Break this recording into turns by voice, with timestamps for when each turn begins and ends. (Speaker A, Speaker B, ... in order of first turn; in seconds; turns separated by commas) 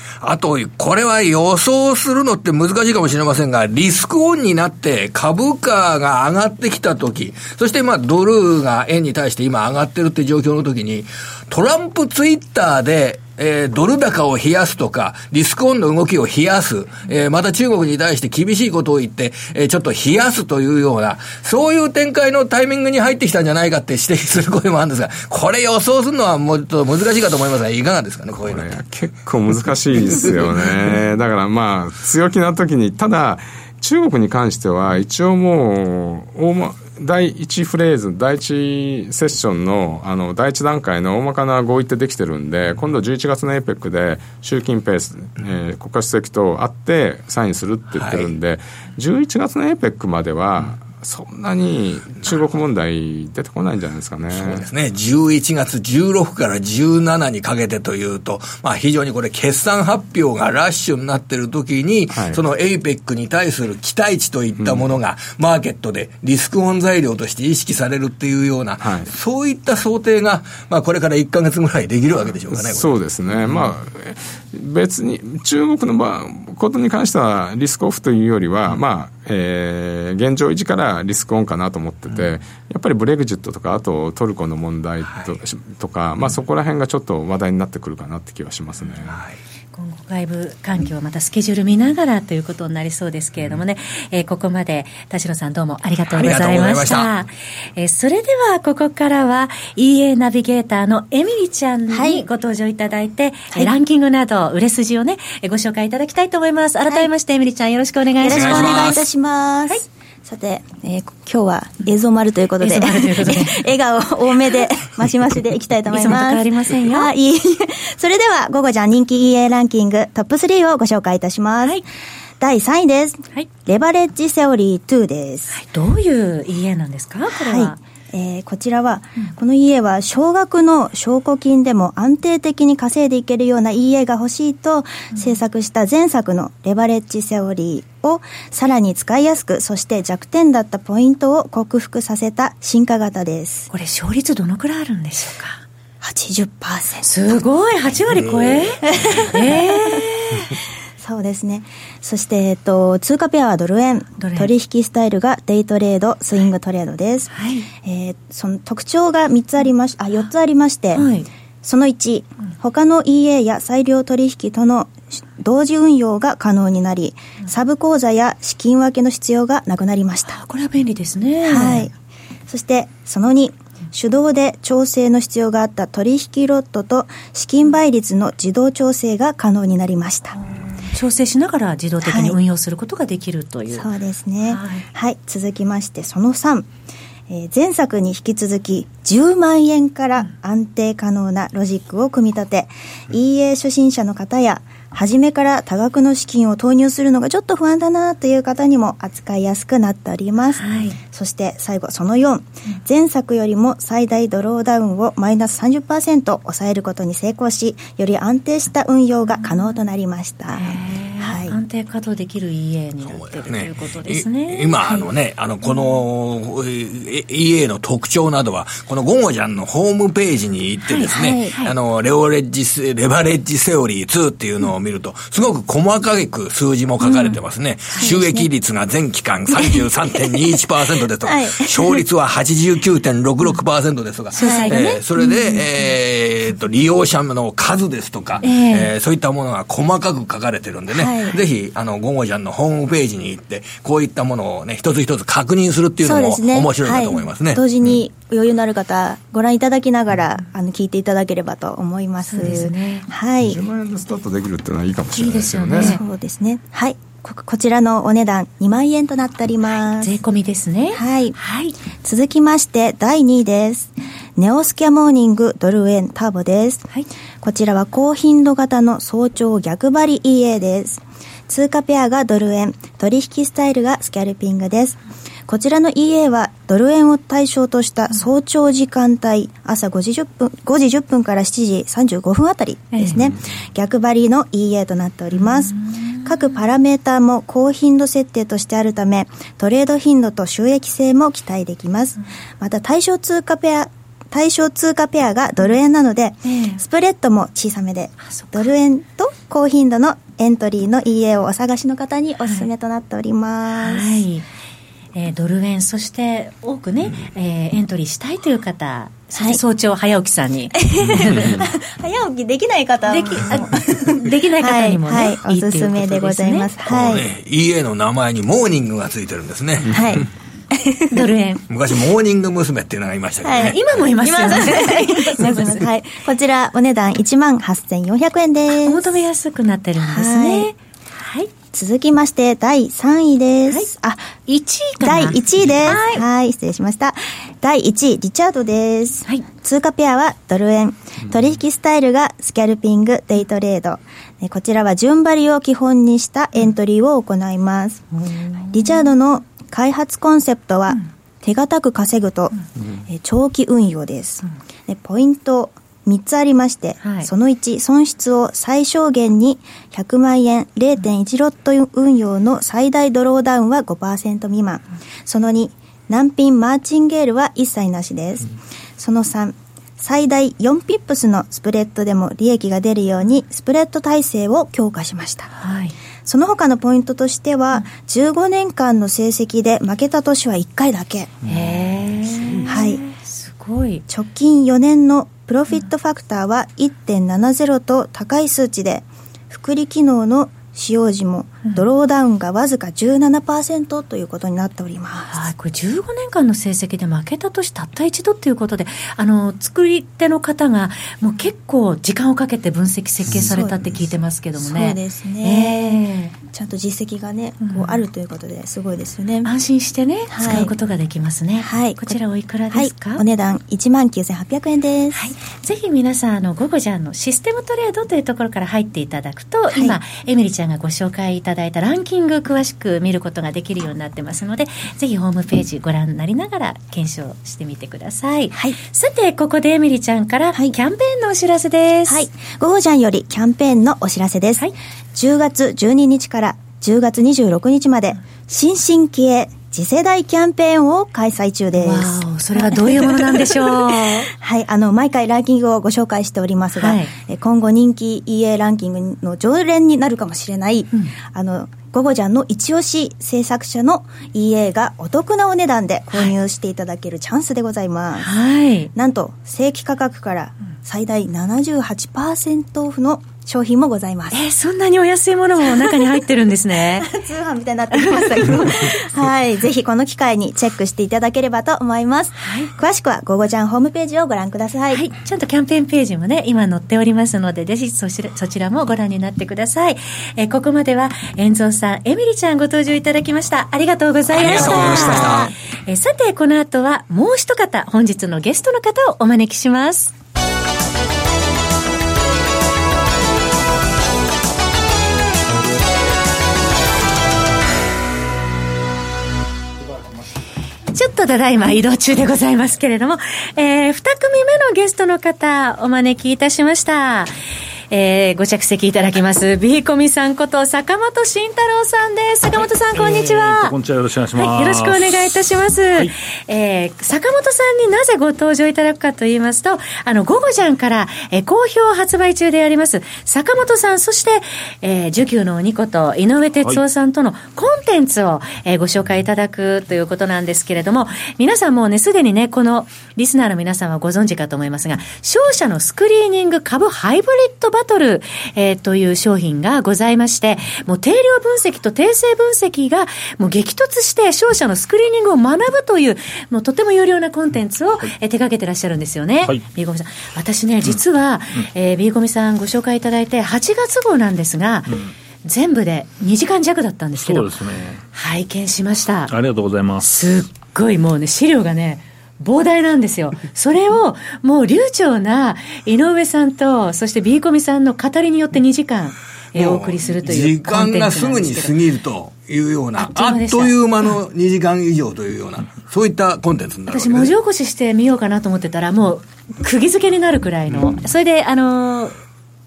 Speaker A: 0.2-28.7, Speaker B: 28.4-54.6, Speaker A: 48.0-48.3, Speaker A: 54.3-73.0, Speaker B: 62.1-62.4, Speaker B: 64.6-64.9, Speaker B: 68.8-69.1, Speaker B: 72.5-89.2, Speaker A: 89.1-89.4, Speaker C: 89.7-109.0, Speaker A: 96.1-97.1, Speaker D: 101.9-102.2, Speaker D: 108.2-121.8, Speaker A: 108.2-109.1, Speaker C: 112.6-113.6, Speaker C: 115.9-117.1, Speaker D: 122.4-125.6, Speaker C: 125.5-127.8, Speaker D: 127.3-143.7, Speaker C: 143.7-145.6, Speaker D: 146.0-147.4, Speaker C: 147.1-150.5, Speaker A: 148.1-149.2, Speaker D: 148.9-150.0, Speaker D: 151.0-161.1, Speaker C: 154.2-154.5, Speaker C: 157.3-157.7, Speaker C: 160.9-161.3, Speaker D: 161.6-170.4, Speaker C: 170.3-171.9, Speaker D: 171.4-171.9, Speaker D: 172.5-180.4, Speaker C: 180.4-183.9, Speaker D: 182.0-182.4, Speaker D: 183.7-186.7, Speaker C: 184.4-184.9, Speaker D: 187.3-211.6, Speaker C: 200.6-201.0, Speaker C: 210.5-215.1, Speaker A: 213.1-247.6, Speaker C: 220.9-221.8, Speaker D: 221.1-221.6, Speaker C: 227.0-227.4, Speaker D: 228.0-228.5, Speaker D: 229.6-230.6, Speaker D: 231.2-232.0, Speaker C: 234.3-235.0, Speaker D: 234.4-235.2, Speaker C: 238.4-238.9, Speaker D: 240.9-241.4, Speaker D: 246.0-253.6, Speaker C: 252.3-253.1, Speaker B: 253.4-256.0, Speaker C: 255.2-256.0, Speaker D: 255.8-260.2, Speaker C: 260.0-261.8, Speaker D: 260.9-261.4, Speaker D: 262.0-266.9, Speaker D: 267.4-304.2, Speaker C: 282.9-283.3, Speaker C: 286.0-286.3, Speaker C: 296.4-296.8, Speaker C: 298.3-298.7, Speaker C: 303.8-304.4, Speaker C: 305.1-311.6, Speaker D: 310.8-317.3, Speaker C: 313.1-316.7, Speaker A: 316.9-320.2, Speaker D: 319.9-321.3, Speaker C: 321.1-321.6, Speaker A: 321.7-324.1, Speaker D: 323.4-329.1, Speaker C: 323.5-325.7, Speaker C: 328.7-331.5, Speaker D: 330.0-330.7, Speaker D: 331.7-334.3, Speaker C: 334.5-336.2, Speaker D: 335.0-348.1, Speaker C: 348.1-349.1, Speaker D: 348.7-352.5, Speaker D: 353.1-375.5, Speaker C: 357.0-357.3, Speaker C: 375.6-376.0, Speaker D: 376.2-381.4, Speaker C: 381.5-384.0, Speaker D: 382.6-383.0, Speaker D: 384.1-395.5, Speaker C: 395.3-406.4, Speaker D: 403.4-403.9, Speaker D: 404.6-409.5, Speaker C: 407.6-408.0, Speaker C: 409.4-413.2, Speaker D: 410.3-410.7, Speaker D: 411.6-412.2, Speaker D: 412.7-415.2, Speaker C: 415.1-432.3, Speaker D: 432.1-458.3, Speaker C: 441.8-444.3, Speaker C: 446.8-447.1, Speaker C: 458.2-458.9, Speaker D: 458.9-464.4, Speaker C: 464.3-467.1, Speaker D: 465.8-466.1, Speaker D: 467.0-475.1, Speaker C: 467.9-468.9, Speaker C: 472.4-472.7, Speaker C: 474.9-490.1, Speaker A: 484.3-485.5, Speaker D: 484.5-485.5, Speaker C: 500.9-507.3, Speaker C: 507.9-513.8, Speaker E: 512.9-515.4, Speaker C: 514.4-557.5, Speaker E: 557.2-558.1, Speaker C: 558.1-559.3, Speaker E: 559.3-560.4, Speaker C: 560.0-571.8, Speaker A: 569.5-577.3, Speaker C: 573.0-574.1, Speaker C: 576.9-582.2